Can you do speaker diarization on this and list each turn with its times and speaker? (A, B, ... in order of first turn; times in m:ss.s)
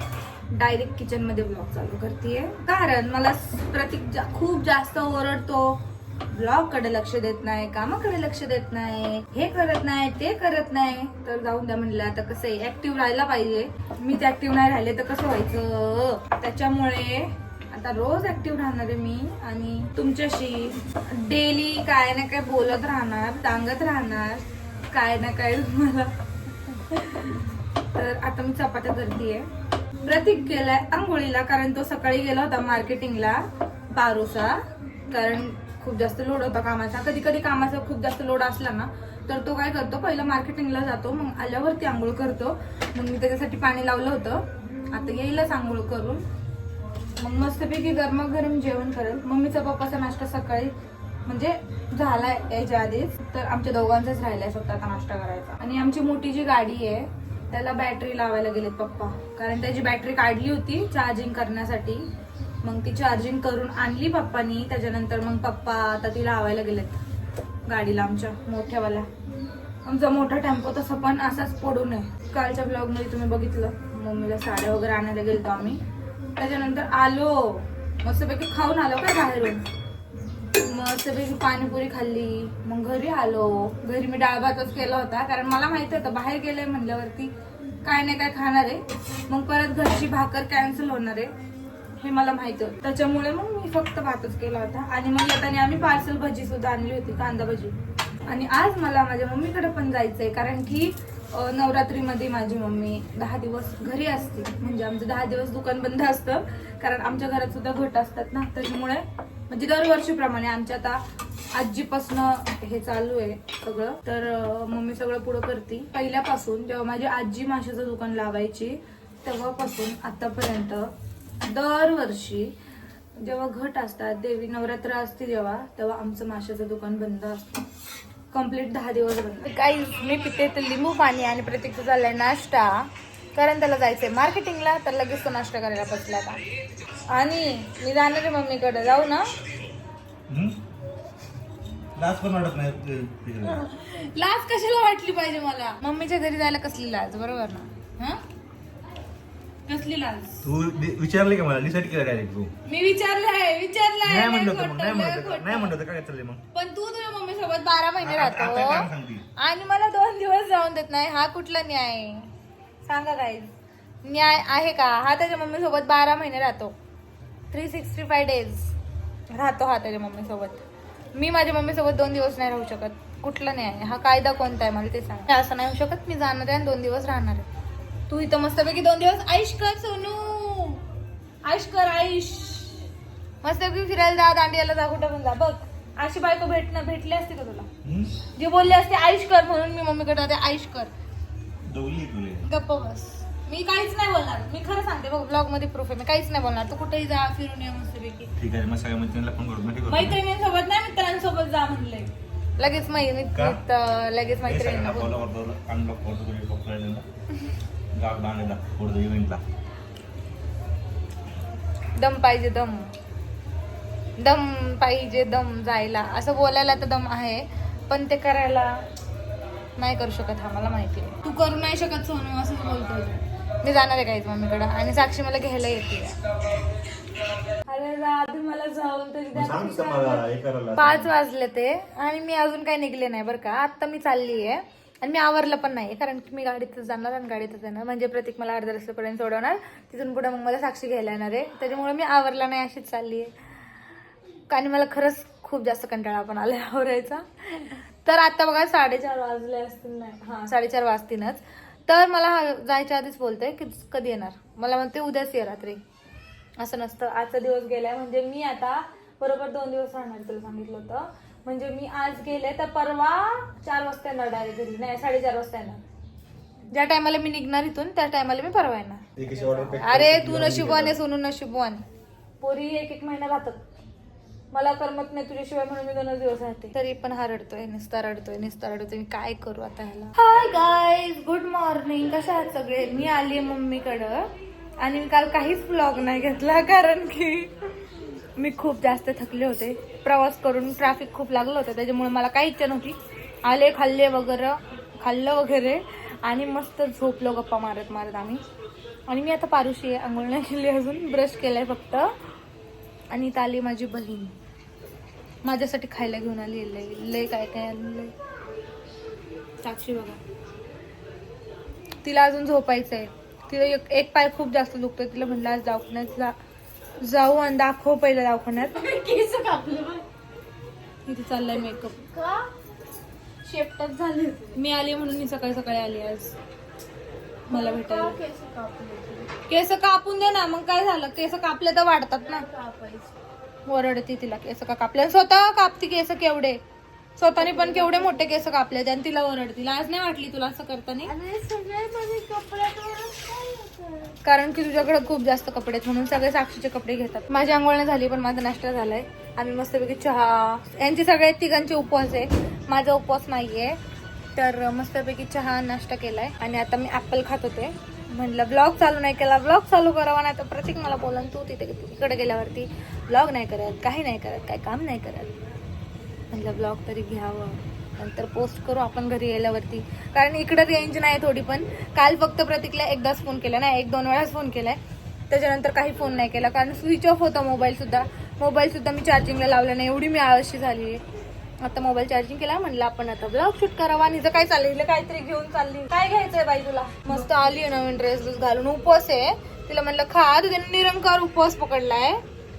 0:00.5-0:05.8 A
0:06.3-0:26.1 A
0:26.7-0:29.5 A
0:30.0-0:33.4 A
0:33.9-0:34.6 A
0:35.1-0:46.2 A
0:47.2-0:50.7 A
0:51.3-1:02.1 A
1:02.6-1:07.0 A
1:07.7-1:09.1 A
1:09.8-1:15.8 A
1:16.4-1:19.6 A
1:20.6-1:27.3 A
1:27.8-1:31.3 A
1:32.0-1:37.8 A
1:38.3-1:51.0 A
1:51.5-2:00.9 A
2:01.4-2:02.5 A
2:03.2-2:07.6 A
2:08.3-2:16.4 A
2:17.1-2:19.3 A
2:20.3-2:20.6 B
2:22.0-2:23.6 B
2:23.5-2:28.2 A
2:29.7-2:30.4 A
2:30.4-2:32.5 B
2:32.7-2:35.8 A
2:34.0-2:36.4 B
2:36.5-2:42.3 A
2:38.0-2:39.3 B
2:42.8-2:43.5 A
2:44.0-2:46.8 A
2:47.5-2:48.7 A
2:49.3-2:57.5 A
2:58.1-3:00.8 A
3:01.4-3:02.9 A
3:03.4-3:07.7 A
3:07.8-3:08.2 B
3:08.4-3:10.9 A
3:11.7-3:12.5 B
3:12.4-3:18.3 A
3:18.4-3:20.2 B
3:19.9-3:25.2 A
3:23.4-3:23.6 B
3:24.5-3:27.0 B
3:27.9-3:29.4 B
3:32.0-3:32.9 A
3:34.2-3:38.8 A
3:39.8-3:46.2 A
3:47.7-4:03.3 A
3:49.3-3:51.1 B
4:04.5-4:15.8 A
4:16.6-4:25.8 A
4:26.7-4:31.8 A
4:29.2-4:31.0 B
4:32.4-4:33.6 A
4:34.5-4:44.3 A
4:44.8-4:47.5 A
4:48.4-4:58.4 A
4:59.1-5:02.1 A
5:03.1-5:04.4 A
5:05.4-5:08.1 A
5:09.6-5:10.2 A
5:12.0-5:16.3 A
5:17.0-5:18.8 A
5:18.8-5:20.1 C
5:21.1-5:22.0 A
5:21.6-5:22.5 C
5:23.4-5:24.6 C
5:24.6-5:26.3 A
5:27.5-5:28.2 A
5:27.5-5:29.3 C
5:29.5-5:32.4 A
5:32.2-5:33.2 C
5:33.7-5:36.6 A
5:37.2-5:41.1 A
5:37.4-5:38.3 C
5:41.1-5:44.2 C
5:44.2-5:53.8 A
5:54.4-6:05.3 A
6:06.3-6:14.8 A
6:15.3-6:21.0 A
6:21.6-6:32.2 A